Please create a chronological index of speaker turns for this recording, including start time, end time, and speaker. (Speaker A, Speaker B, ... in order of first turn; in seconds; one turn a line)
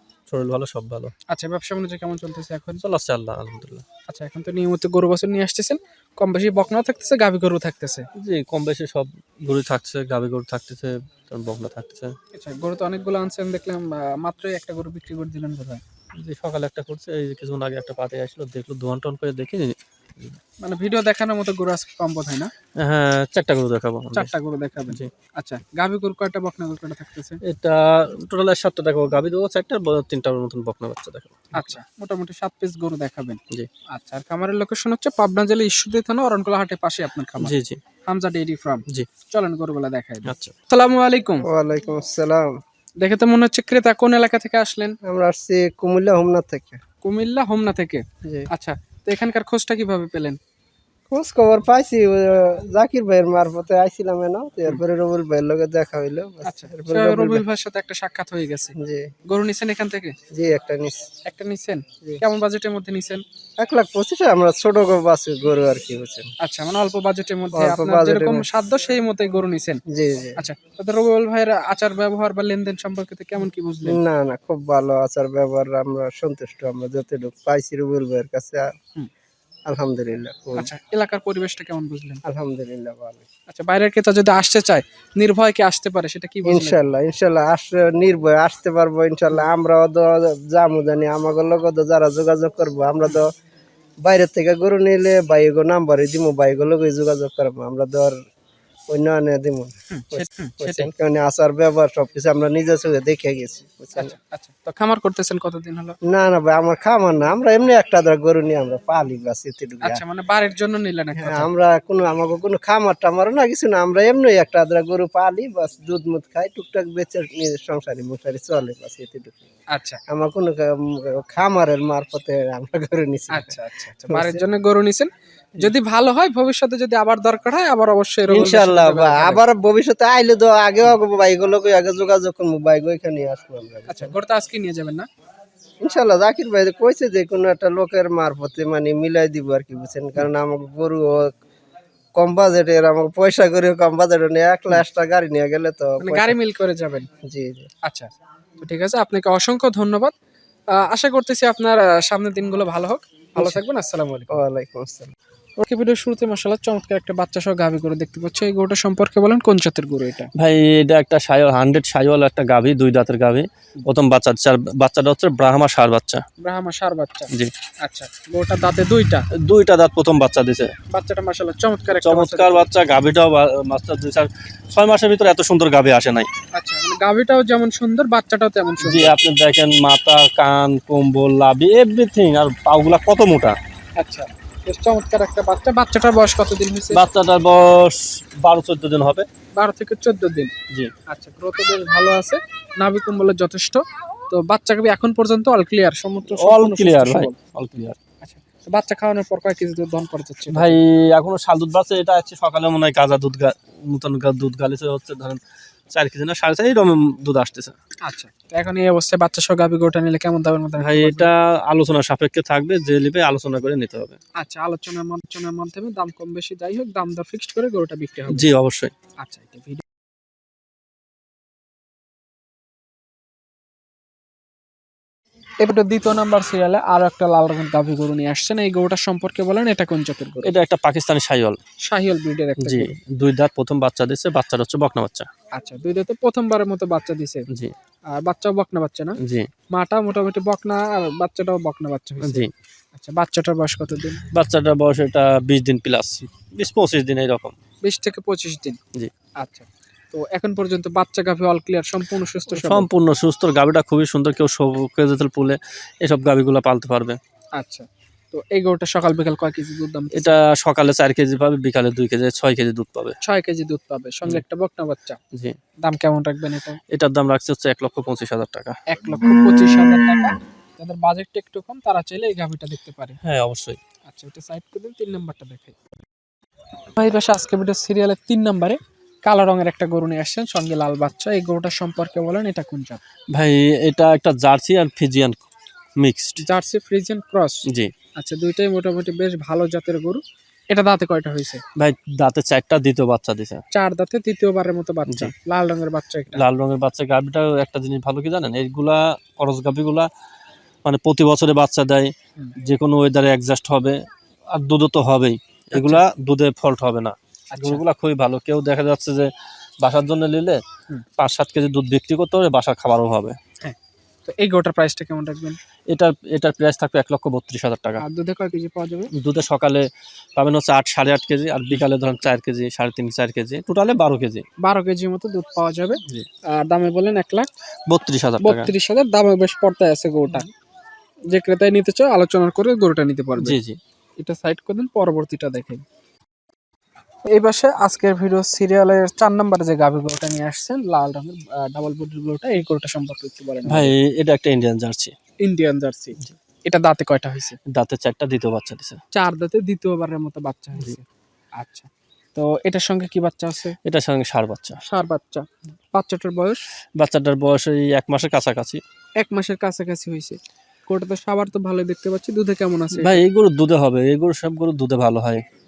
Speaker A: 0.3-1.1
Speaker B: 1.3-2.8
Speaker A: 2.8-3.8
Speaker B: 4.1-8.1
Speaker A: 8.2-12.1
Speaker B: 12.3-15.8
Speaker A: 16.2-20.4
Speaker B: 20.6-22.5
Speaker A: 22.8-24.3
Speaker B: 24.1-27.4
Speaker A: 27.4-31.7
Speaker B: 31.5-37.5
Speaker A: 37.4-37.8
Speaker B: 38.0-41.5
Speaker A: 40.2-40.5
Speaker C: 41.4-42.5
Speaker B: 43.0-45.0
Speaker C: 45.0-46.8
Speaker B: 47.0-50.4
Speaker C: 48.2-48.5
Speaker C: 51.1-57.4
Speaker B: 56.4-60.2
Speaker C: 58.8-59.1
Speaker C: 60.3-61.0
Speaker B: 61.2-63.2
Speaker C: 63.6-66.3
Speaker B: 66.4-69.8
Speaker C: 67.5-68.5
Speaker C: 69.9-70.4
Speaker B: 70.4-74.0
Speaker C: 73.8-78.7
Speaker C: 79.7-80.7
Speaker B: 80.5-82.2
Speaker C: 82.2-83.2
Speaker B: 83.5-86.8
Speaker C: 86.4-93.3
Speaker C: 94.0-98.2
Speaker C: 98.9-104.1
Speaker B: 99.9-100.9
Speaker B: 104.0-106.0
Speaker C: 106.0-110.0
Speaker B: 109.8-111.5
Speaker C: 111.2-119.4
Speaker B: 119.7-120.0
Speaker C: 120.1-123.6
Speaker B: 123.3-129.4
Speaker C: 124.1-124.4
Speaker C: 128.3-134.1
Speaker B: 133.9-135.1
Speaker C: 135.8-141.3
Speaker C: 142.2-146.3
Speaker B: 146.0-147.1
Speaker C: 147.2-147.7
Speaker B: 147.8-150.1
Speaker B: 150.7-154.4
Speaker C: 154.3-155.1
Speaker B: 155.6-160.3
Speaker A: 160.4-166.2
Speaker B: 166.4-169.2
Speaker A: 169.4-170.7
Speaker B: 170.9-172.7
Speaker A: 171.9-176.3
Speaker B: 176.5-179.1
Speaker A: 178.8-183.6
Speaker B: 184.0-187.1
Speaker A: 186.9-189.3
Speaker B: 189.6-190.5
Speaker B: 191.1-200.8
Speaker A: 196.2-198.0
Speaker A: 200.5-205.4
Speaker A: 205.9-207.8
Speaker B: 208.0-211.3
Speaker A: 210.8-214.2
Speaker B: 214.4-218.5
Speaker A: 218.3-218.9
Speaker B: 219.2-219.8
Speaker B: 225.6-230.5
Speaker A: 230.4-231.6
Speaker B: 231.8-232.9
Speaker A: 232.6-235.3
Speaker B: 235.5-237.4
Speaker B: 238.1-239.2
Speaker A: 239.2-239.5
Speaker B: 239.7-244.2
Speaker A: 242.2-242.5
Speaker A: 244.3-247.6
Speaker B: 247.8-248.8
Speaker B: 249.4-252.9
Speaker A: 252.5-257.2
Speaker B: 257.6-260.3
Speaker A: 260.1-263.2
Speaker B: 263.2-265.2
Speaker B: 265.8-266.8
Speaker A: 266.9-268.8
Speaker B: 268.9-273.2
Speaker A: 273.2-273.8
Speaker B: 274.0-275.8
Speaker B: 276.9-283.0
Speaker A: 283.3-285.4
Speaker A: 286.0-286.4
Speaker B: 286.4-287.6
Speaker B: 288.1-291.6
Speaker A: 291.8-293.6
Speaker B: 293.7-296.4
Speaker A: 295.1-295.3
Speaker A: 296.3-300.1
Speaker A: 300.8-304.0
Speaker A: 304.5-309.3
Speaker B: 305.7-306.0
Speaker B: 307.5-307.8
Speaker A: 309.8-310.6
Speaker A: 311.2-313.4
Speaker B: 313.6-315.6
Speaker A: 315.9-318.0
Speaker B: 318.0-319.1
Speaker A: 319.1-319.8
Speaker A: 320.4-324.4
Speaker B: 324.6-327.5
Speaker A: 327.9-328.7
Speaker B: 328.4-330.5
Speaker B: 331.3-333.6
Speaker A: 333.4-333.8
Speaker B: 334.2-335.8
Speaker B: 337.3-343.9
Speaker A: 343.6-345.1
Speaker B: 345.4-347.6
Speaker A: 347.7-349.0
Speaker B: 349.1-351.1
Speaker B: 351.6-353.8
Speaker A: 353.9-354.8
Speaker B: 354.8-356.6
Speaker A: 357.0-358.8
Speaker B: 359.2-363.2
Speaker A: 362.9-365.4